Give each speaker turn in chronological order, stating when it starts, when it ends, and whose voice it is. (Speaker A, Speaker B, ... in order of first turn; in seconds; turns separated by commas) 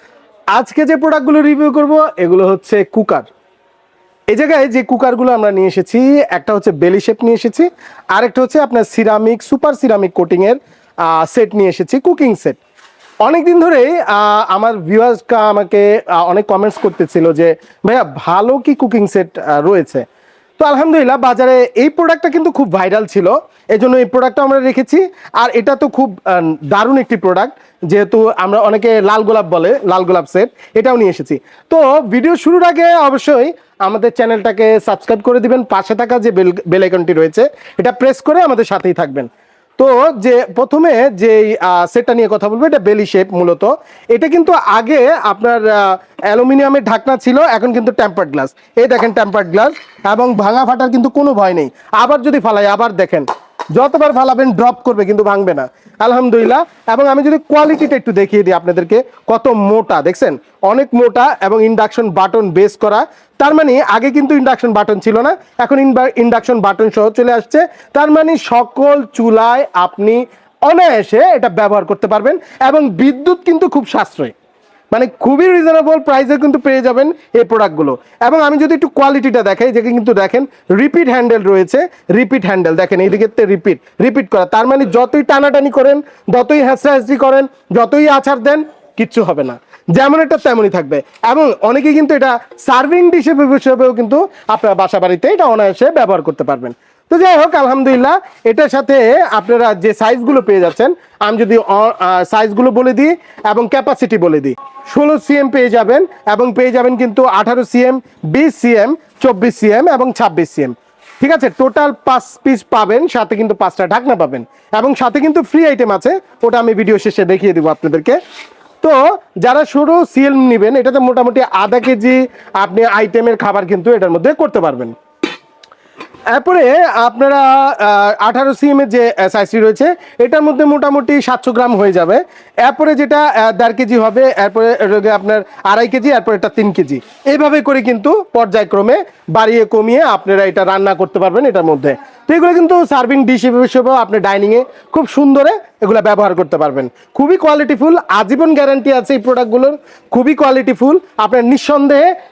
Speaker A: 0.5-3.3, Speaker A: 4.3-12.6, Speaker A: 13.2-20.0, Speaker A: 20.6-74.3, Speaker A: 74.9-118.2, Speaker A: 118.8-124.9, Speaker A: 126.3-152.1